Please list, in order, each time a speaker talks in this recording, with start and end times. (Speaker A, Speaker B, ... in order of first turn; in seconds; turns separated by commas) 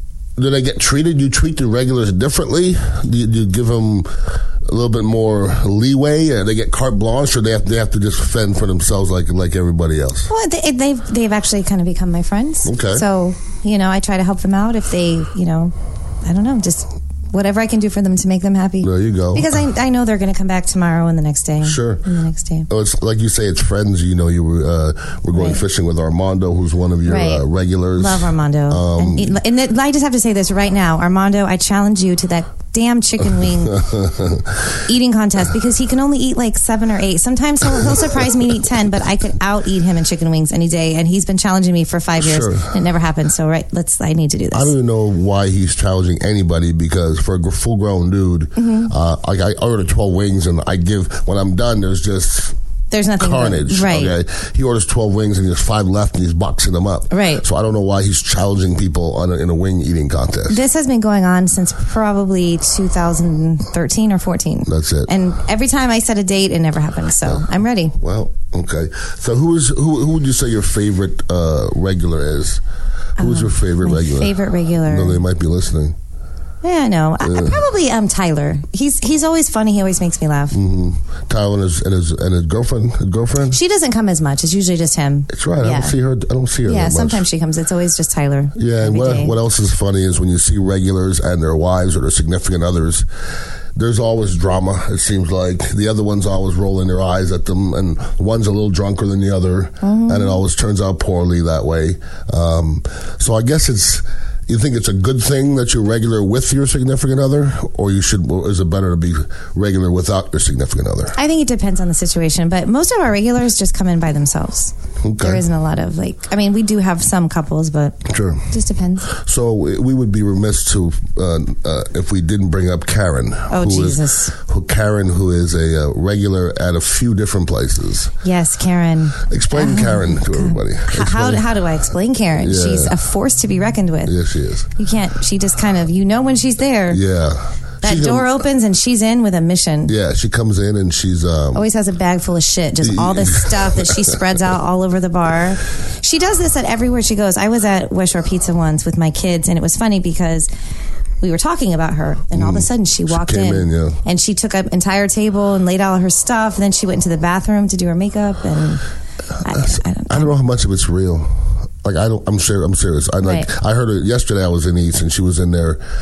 Speaker A: 0.4-4.1, Speaker A: 4.7-10.3, Speaker B: 10.3-22.7, Speaker A: 12.6-13.1, Speaker A: 18.8-19.5, Speaker A: 21.6-22.0, Speaker A: 22.7-29.4, Speaker B: 25.3-25.6, Speaker B: 27.1-27.4, Speaker B: 28.0-33.9, Speaker A: 33.8-34.4, Speaker B: 34.8-44.7, Speaker A: 42.2-42.7, Speaker A: 44.5-52.5, Speaker B: 48.6-48.9, Speaker B: 52.9-54.2, Speaker A: 53.2-60.6, Speaker B: 57.1-57.5, Speaker B: 60.5-68.0, Speaker A: 64.7-65.1, Speaker A: 68.0-72.6, Speaker A: 73.2-74.3, Speaker B: 73.2-75.2, Speaker A: 74.9-76.0, Speaker B: 76.6-80.6, Speaker A: 77.2-77.6, Speaker A: 80.5-83.6, Speaker B: 83.5-86.0, Speaker A: 85.3-87.2, Speaker B: 86.6-89.4, Speaker A: 88.5-93.1, Speaker A: 93.8-111.2, Speaker B: 99.8-100.4, Speaker B: 111.1-119.1, Speaker A: 115.0-115.4, Speaker A: 118.1-118.5, Speaker A: 119.1-128.1, Speaker B: 123.5-124.3, Speaker B: 128.2-134.2, Speaker A: 129.2-131.5, Speaker A: 132.4-133.0, Speaker A: 134.1-134.7, Speaker B: 134.8-137.0, Speaker A: 136.9-138.4, Speaker B: 137.8-139.9, Speaker A: 139.9-141.7, Speaker B: 141.5-150.5, Speaker A: 142.8-144.2, Speaker B: 151.2-158.8, Speaker A: 152.3-154.0, Speaker B: 159.4-160.3, Speaker A: 159.6-165.8, Speaker B: 163.2-163.5